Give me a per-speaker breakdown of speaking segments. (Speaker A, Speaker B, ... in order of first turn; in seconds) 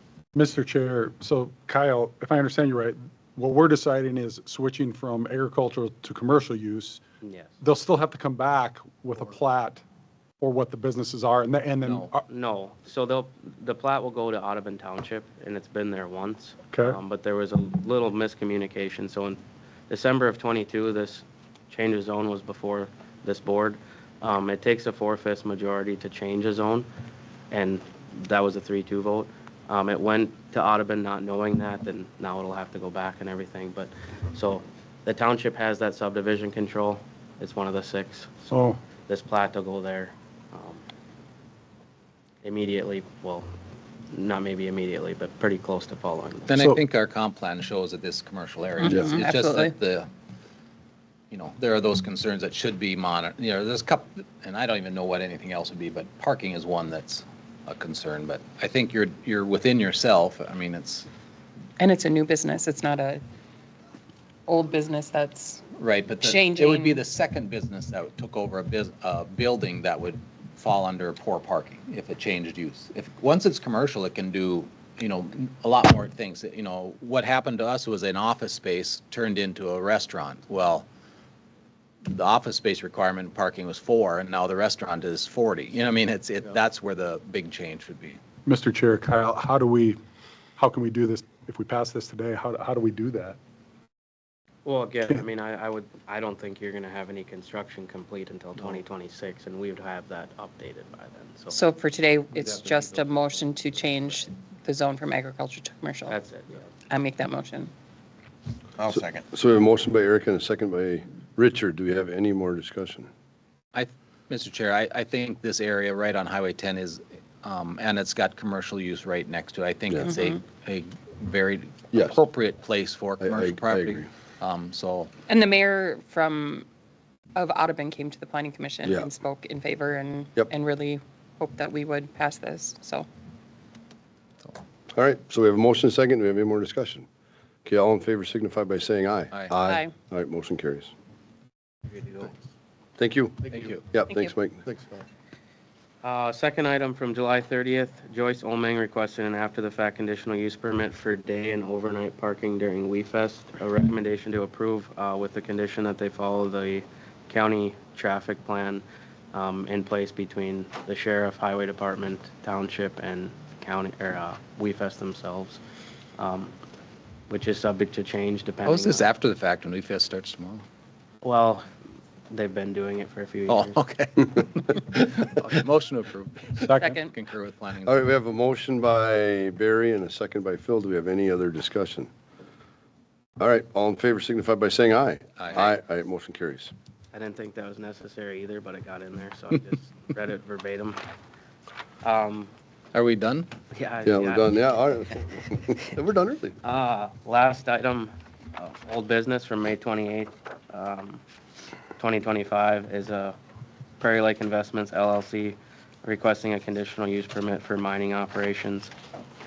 Speaker A: 0.3-7.0, 7.6-9.8, 10.4-12.3, 16.7-17.0, 38.5-38.8, 88.5-90.0, 90.6-93.4, 176.6-177.0
Speaker B: 7.2-7.5, 12.3-26.9, 27.5-40.8, 42.4-43.5, 44.1-46.5, 94.6-101.6, 102.5-103.4, 106.1-106.7, 146.0-165.6, 166.2-166.6, 167.3-169.0, 171.2-171.7, 172.3-173.8, 187.1-191.0, 192.0-192.5, 193.7-194.5, 196.6-201.2, 202.0-203.4, 204.0-208.9
Speaker C: 11.8-12.1, 46.5-50.1, 51.3-61.0, 65.8-80.9, 82.0-88.2, 113.7-125.1, 143.5-143.8, 168.7-170.6, 173.5-177.9, 185.4-185.7, 192.9-193.5
Speaker D: 48.9-49.7, 61.8-63.2, 64.5-65.6, 66.2-67.0, 101.5-106.1, 106.9-107.7, 125.3-126.7, 127.3-133.1, 139.6-139.9, 176.8-177.1
Speaker E: 108.9-113.1, 121.9-122.2, 123.2-124.1, 128.8-129.1, 134.9-137.1, 137.6-140.9, 143.0-144.7, 177.8-182.1, 183.4-186.7, 194.0-196.5